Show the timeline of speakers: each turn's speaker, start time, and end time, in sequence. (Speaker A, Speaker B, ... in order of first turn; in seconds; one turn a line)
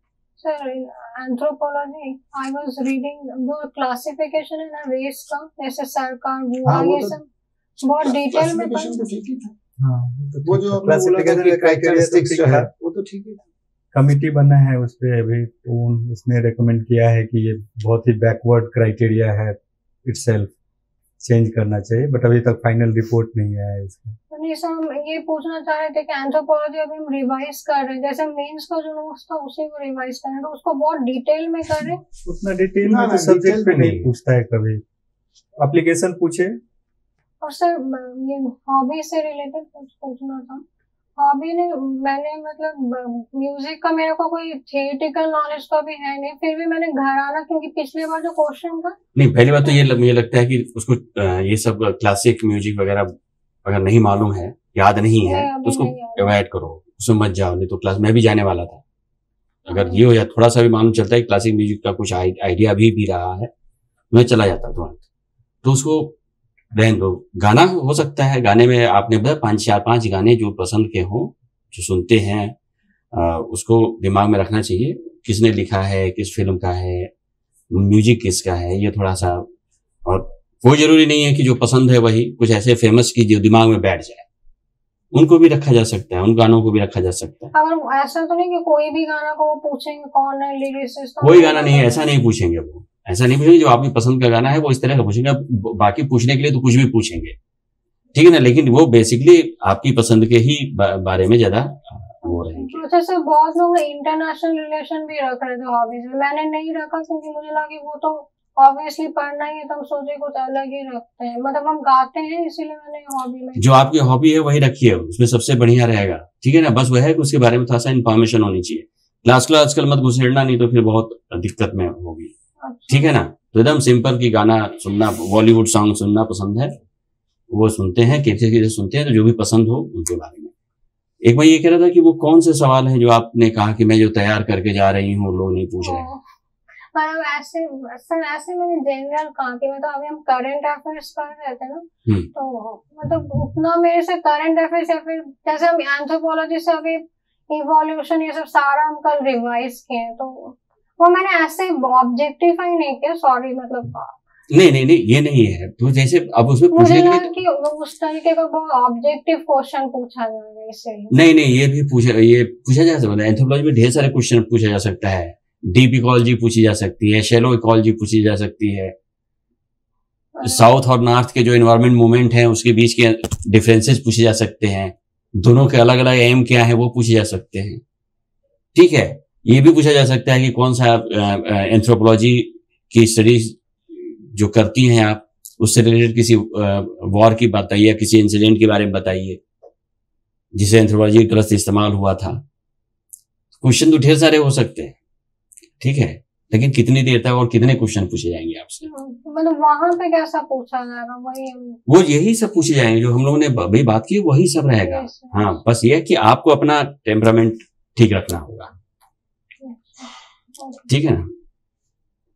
Speaker A: 0.4-7.3
Speaker B: 6.7-7.1
Speaker A: 7.8-9.0
Speaker B: 8.0-9.6
Speaker C: 9.8-12.7
Speaker B: 10.4-13.4
Speaker C: 13.9-20.5
Speaker C: 21.2-24.2
Speaker A: 24.3-32.0
Speaker C: 32.2-34.8
Speaker B: 32.8-34.1
Speaker C: 35.6-36.5
Speaker A: 37.4-40.6
Speaker A: 41.2-49.0
Speaker D: 49.1-53.1
Speaker D: 53.6-58.8
Speaker A: 55.2-56.4
Speaker D: 59.7-63.5
Speaker A: 59.7-60.0
Speaker D: 64.1-65.0
Speaker D: 65.6-66.2
Speaker D: 66.7-72.5
Speaker D: 73.1-77.1
Speaker D: 77.7-79.5
Speaker D: 80.0-84.2
Speaker D: 85.1-87.5
Speaker A: 87.5-92.1
Speaker D: 91.2-97.3
Speaker D: 98.1-102.8
Speaker A: 102.2-113.7
Speaker D: 113.6-122.3
Speaker A: 122.6-123.1
Speaker D: 122.9-126.7
Speaker D: 127.5-130.5
Speaker D: 131.2-136.1
Speaker A: 135.8-136.2
Speaker A: 136.9-154.1
Speaker D: 154.5-157.4
Speaker A: 156.7-161.1
Speaker D: 161.1-168.9
Speaker A: 170.4-170.8
Speaker D: 170.4-177.8
Speaker D: 178.8-189.4
Speaker D: 190.6-192.4
Speaker D: 193.6-194.9
Speaker D: 195.8-198.9
Speaker A: 198.8-201.8
Speaker D: 201.9-208.7
Speaker A: 204.8-205.6
Speaker A: 209.6-210.9
Speaker D: 210.9-211.3